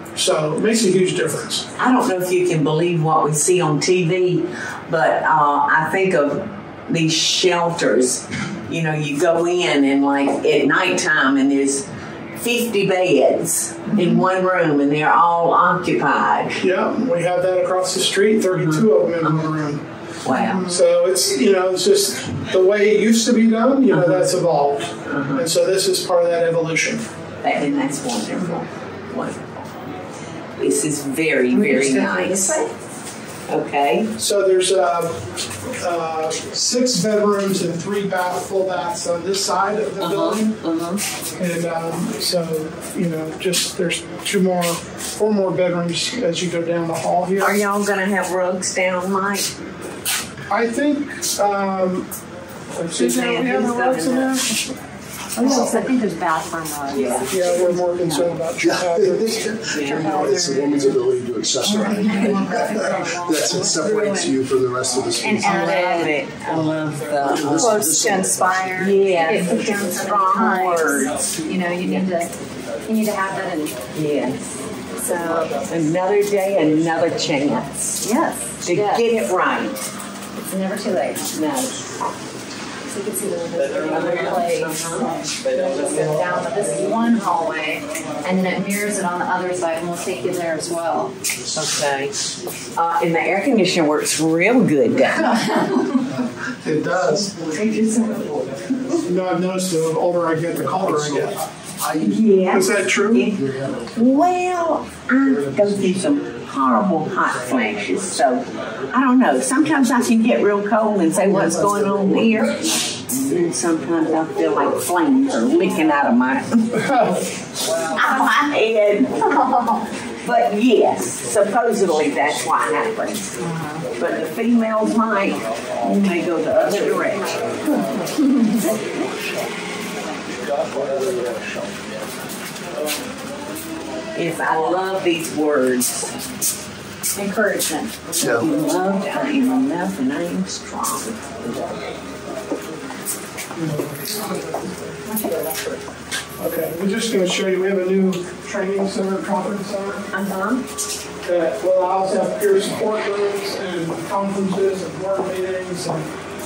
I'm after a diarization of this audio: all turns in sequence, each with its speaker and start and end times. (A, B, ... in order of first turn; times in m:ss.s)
0:00.1-0:01.7 A
0:01.8-0:16.6 B
0:16.6-0:27.1 A
0:18.5-0:19.5 B
0:20.2-0:20.7 B
0:23.9-0:24.4 B
0:25.0-0:25.5 B
0:27.4-0:29.7 B
0:30.6-0:32.6 B
0:31.5-0:32.7 C
0:33.5-0:34.1 B
0:34.2-0:40.6 A
0:40.0-0:41.0 B
0:41.4-0:47.6 A
0:47.4-0:49.5 B
0:50.5-0:52.1 A
0:52.7-0:54.8 A
0:52.9-0:54.4 B
0:55.3-0:55.9 A
0:55.4-0:58.3 C
0:56.9-0:57.3 B
0:57.3-0:59.6 A
0:58.6-1:05.8 D
0:59.7-1:00.9 B
0:59.9-1:00.8 C
1:01.6-1:04.4 C
1:05.2-1:06.2 C
1:05.4-1:07.8 B
1:07.2-1:08.8 D
1:07.5-1:13.9 C
1:08.8-1:11.2 B
1:13.9-1:14.4 B
1:15.0-1:15.7 C
1:15.6-1:18.0 B
1:18.0-1:19.0 C
1:18.6-1:19.8 B
1:20.4-1:21.3 C
1:21.3-1:21.8 B
1:22.8-1:31.1 C
1:23.8-1:25.7 B
1:31.5-1:32.1 B
1:32.7-1:35.4 B
1:35.2-1:36.0 C
1:36.2-1:37.4 A
1:37.4-1:39.0 B
1:39.0-1:41.4 A
1:40.6-1:42.4 D
1:42.0-1:56.9 B
1:42.5-1:43.3 A
1:43.2-1:44.1 D
1:45.2-1:48.9 D
1:51.2-1:52.6 D
1:56.7-1:57.2 A
1:57.9-1:59.4 B
1:58.0-1:58.4 C
1:59.3-1:59.8 C
2:00.2-2:03.4 B
2:03.4-2:03.9 C
2:04.0-2:07.4 B
2:06.6-2:09.6 D
2:08.3-2:08.6 C
2:10.2-2:12.1 D
2:14.1-2:16.2 B
2:17.1-2:19.0 C
2:18.2-2:18.5 D
2:18.2-2:21.8 B
2:23.5-2:25.0 A
2:25.0-2:25.8 C
2:26.4-2:30.1 A
2:30.1-2:30.6 B
2:31.2-2:36.1 A